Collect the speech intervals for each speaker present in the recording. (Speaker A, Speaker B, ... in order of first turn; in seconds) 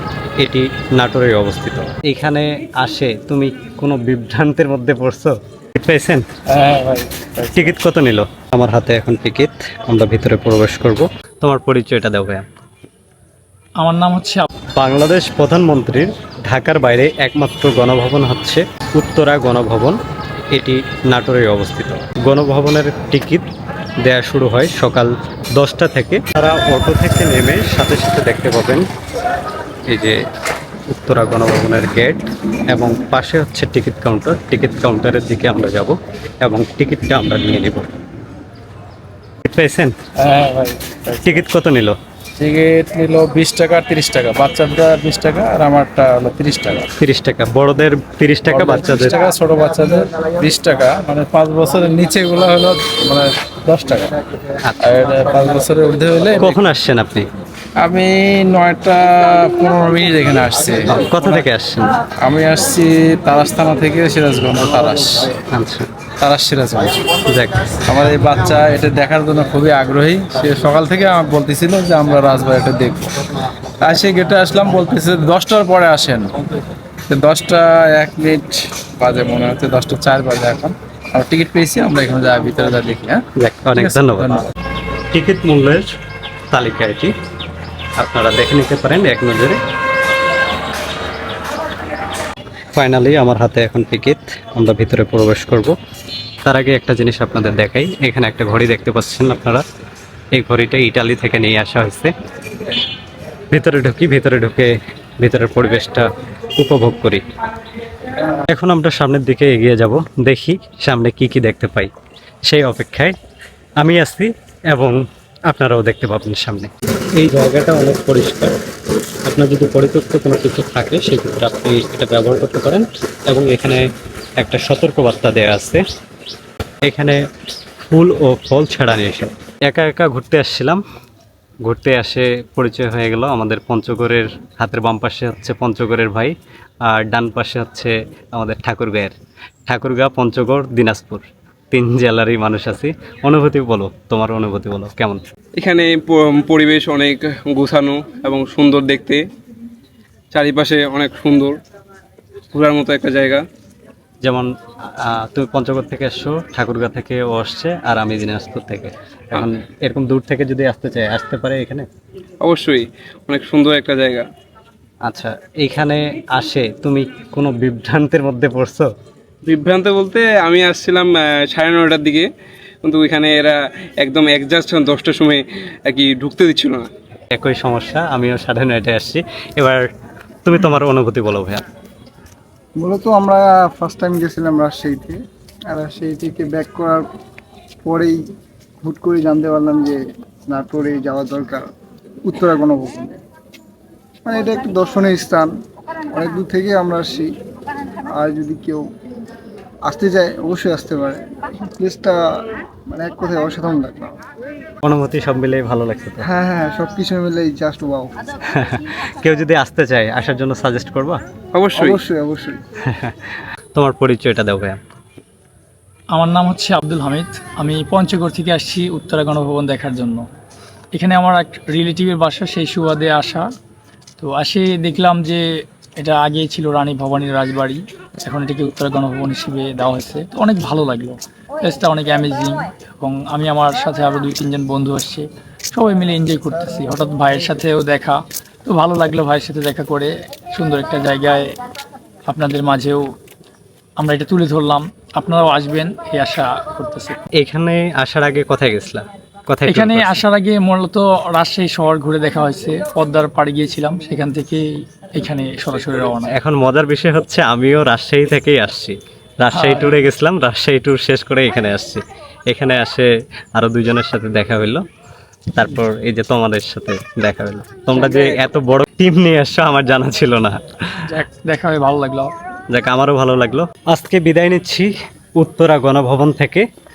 Speaker A: 0.4-6.3, 7.5-12.4, 14.8-20.0, 20.5-23.5, 24.0-28.9, 29.9-30.2, 30.9-37.9, 39.4-40.0, 41.2-42.0, 47.0-49.2, 54.6-55.0, 56.4-57.3, 60.9-62.0, 65.5-65.9, 67.2-67.8, 83.4-84.4, 85.1-85.9, 86.5-87.1, 88.0-89.6, 92.7-95.8, 96.4-99.6, 100.3-102.1, 103.5-107.2, 108.4-111.9, 112.5-113.1, 113.8-118.6, 119.2-123.8, 124.4-125.8, 126.8-127.2, 127.8-130.8, 131.7-136.3, 136.9-139.2, 139.7-145.2, 154.2-161.9, 165.0-168.9, 177.3-179.8, 180.4-181.6, 204.8-206.2, 208.5-211.2, 212.9-214.8, 247.4-250.2, 256.3-264.8, 265.5-271.2, 272.7-276.6
Speaker B: 6.5-7.8, 40.2-41.5, 42.4-46.9, 48.5-54.1, 54.8-56.5, 57.8-61.5, 62.2-65.3, 66.2-66.9, 67.9-73.2, 73.8-76.3, 77.1-83.2, 83.8-84.5
Speaker C: 13.8-14.5, 216.1-220.2, 220.9-223.5, 224.2-225.4, 226.0-241.5, 242.3-243.1, 244.0-247.2, 249.7-256.3, 259.5-260.0, 271.1-272.3
Speaker D: 145.6-149.2, 150.3-151.6, 152.5-153.4, 162.4-164.3, 169.4-172.3, 172.8-176.9, 211.5-212.0
Speaker E: 182.8-185.2, 185.7-187.0, 187.8-188.2, 188.8-191.7, 192.2-193.2, 194.2-195.5, 196.1-197.3, 198.1-198.8, 199.8-202.2, 202.9-204.1, 206.2-208.1, 211.8-212.6